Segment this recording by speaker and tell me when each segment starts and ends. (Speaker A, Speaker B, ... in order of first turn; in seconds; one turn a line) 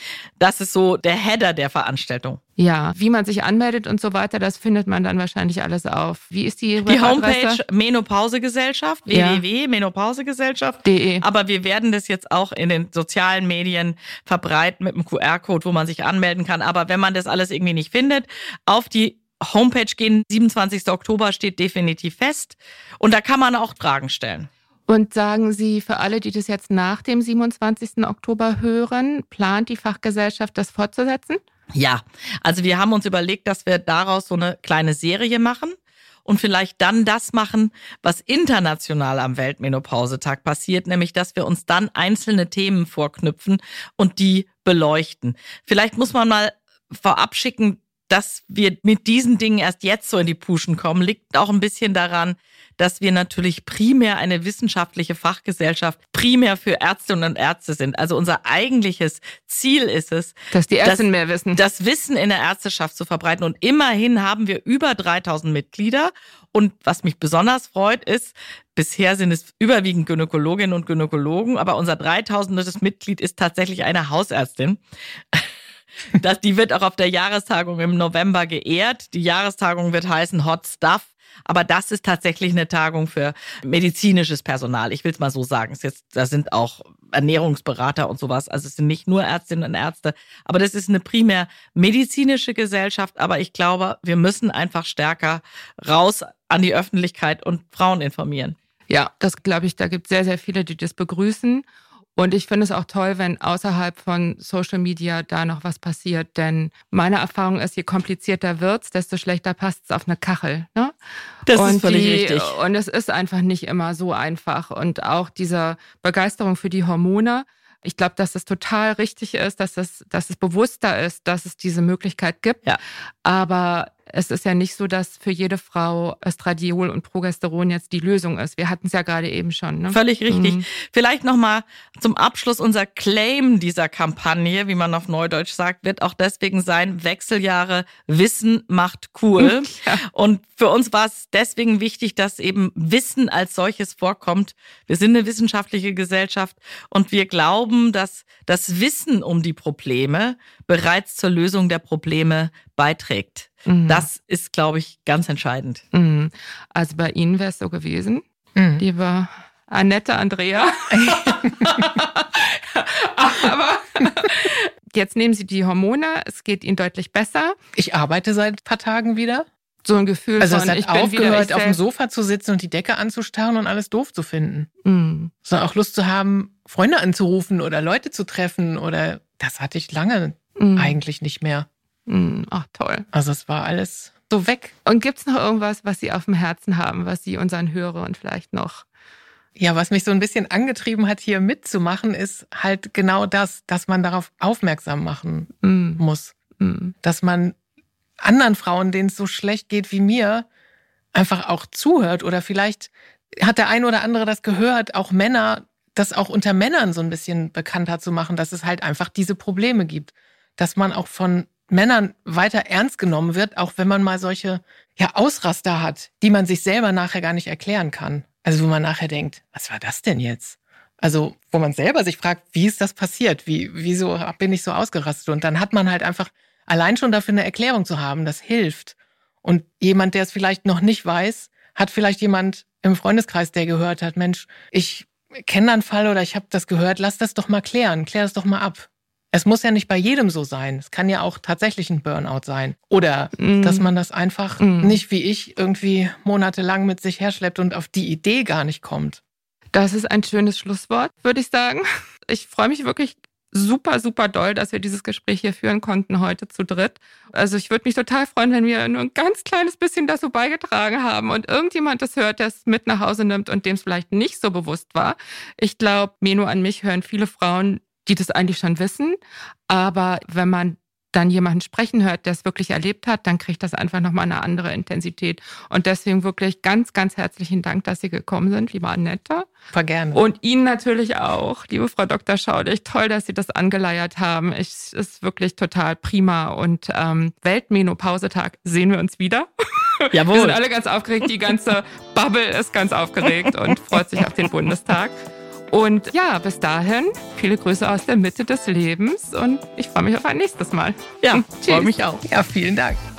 Speaker A: 0.4-2.4
Speaker B: 2.6-7.6
Speaker A: 6.8-24.5
Speaker B: 9.1-9.4
Speaker B: 10.8-11.2
Speaker B: 24.9-31.4
Speaker A: 31.7-74.8
Speaker B: 60.5-61.6
Speaker A: 76.2-98.6
Speaker B: 98.9-101.7
Speaker B: 102.2-111.0
Speaker A: 111.5-112.5
Speaker B: 111.5-122.6
Speaker B: 123.2-130.6
Speaker A: 129.9-155.8
Speaker B: 139.4-140.0
Speaker B: 153.7-154.1
Speaker B: 155.9-158.2
Speaker C: 158.6-158.8
Speaker B: 158.8-167.6
Speaker C: 160.9-161.8
Speaker C: 167.8-169.5
Speaker B: 169.8-171.8
Speaker C: 170.4-174.7
Speaker B: 174.8-175.3
Speaker C: 175.4-181.7
Speaker B: 180.6-181.0
Speaker B: 182.1-183.1
Speaker C: 183.1-184.6
Speaker B: 184.3-188.8
Speaker C: 189.6-196.3
Speaker B: 195.6-196.0
Speaker B: 196.6-196.9
Speaker C: 197.0-197.6
Speaker C: 198.2-200.5
Speaker C: 201.1-249.2
Speaker B: 243.4-243.9
Speaker B: 244.6-245.0
Speaker B: 249.7-279.5
Speaker C: 279.7-280.2
Speaker B: 280.1-295.1
Speaker A: 290.1-290.6
Speaker B: 295.7-301.9
Speaker A: 301.2-302.2
Speaker C: 302.2-303.0